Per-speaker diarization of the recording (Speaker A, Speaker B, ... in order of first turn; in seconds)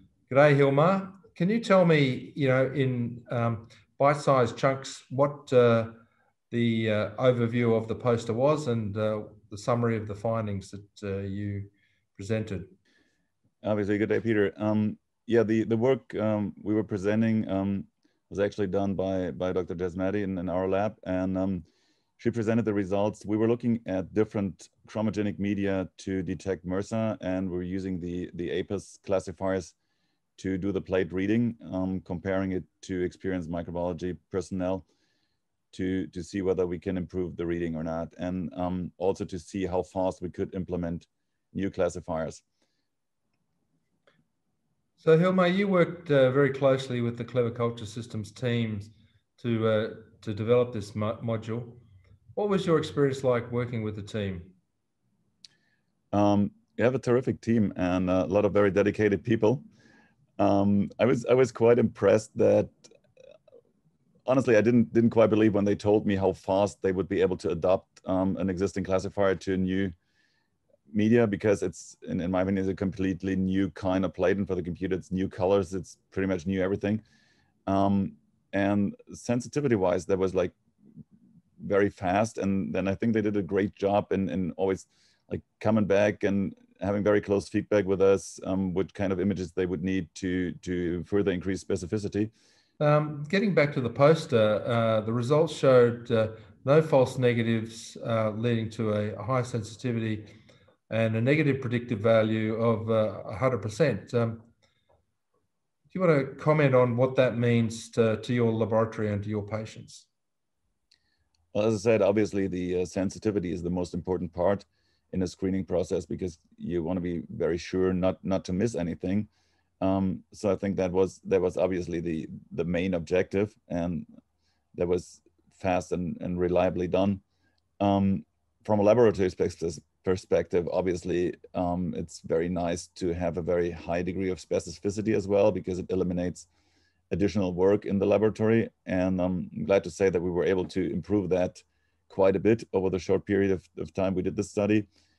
Speaker A: 0.3-6.0, 6.5-12.7, 45.0-51.8, 52.3-54.5, 92.8-100.3, 100.9-104.4, 105.9-110.1
Speaker B: 13.6-21.6, 22.2-29.7, 30.4-34.9, 35.7-42.4, 56.1-59.6, 60.4-62.7, 64.2-69.9, 70.9-77.0, 77.7-80.5, 81.6-92.3, 111.5-119.3, 119.8-124.0, 124.7-127.2, 127.8-136.5, 137.1-144.9